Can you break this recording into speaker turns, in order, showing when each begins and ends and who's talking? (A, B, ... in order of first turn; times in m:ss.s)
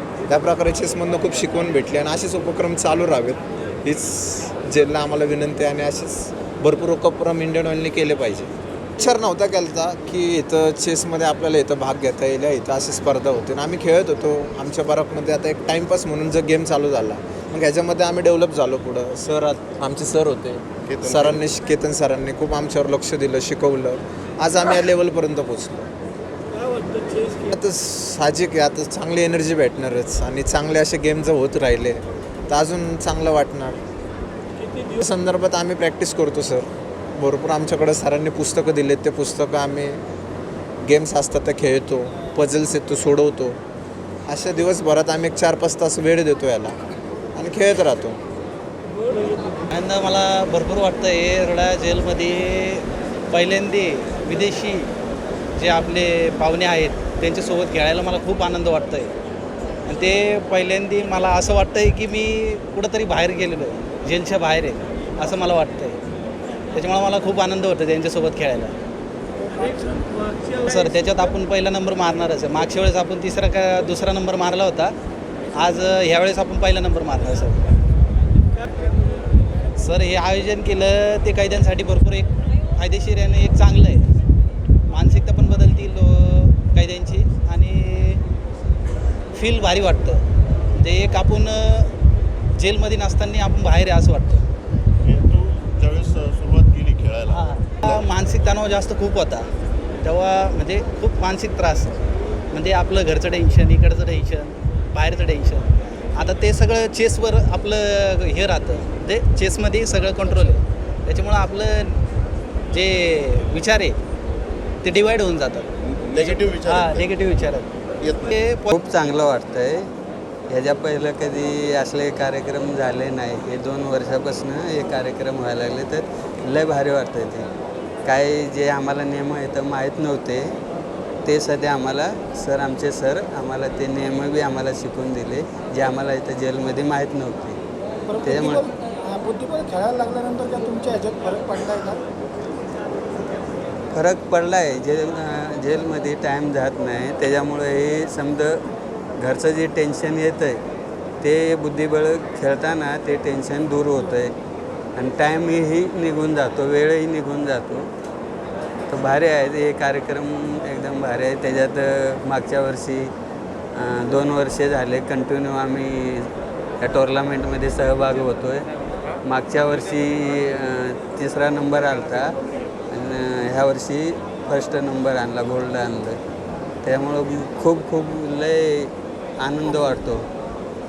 0:00.3-0:25.9 A
0:20.8-0:21.4 B
0:27.4-0:33.8 A
0:34.9-0:40.0 A
0:40.8-0:43.6 A
0:44.3-0:46.8 A
0:47.3-0:48.2 A
0:49.6-0:54.9 C
0:55.5-0:59.1 C
0:59.8-1:06.0 C
1:06.7-1:08.8 C
1:10.6-1:14.9 C
1:15.5-1:17.6 C
1:19.8-1:24.0 C
1:24.9-1:28.2 C
1:29.3-1:31.9 C
1:32.5-1:34.4 C
1:35.0-1:38.0 B
1:37.3-1:39.5 C
1:40.0-1:52.0 C
1:52.7-1:54.0 C
1:54.8-1:58.7 C
1:55.8-1:57.1 B
1:58.0-1:58.3 B
1:58.7-1:59.9 D
2:00.5-2:07.5 D
2:08.0-2:10.6 D
2:11.2-2:17.6 D
2:18.1-2:22.0 E
2:18.2-2:18.6 D
2:23.9-2:28.6 D
2:29.2-2:30.6 D
2:31.2-2:34.3 D
2:35.0-2:37.9 D
2:38.9-2:43.1 D
2:43.7-2:48.6 D
2:49.2-2:52.3 D
2:52.9-2:56.2 D
2:56.8-3:00.2 D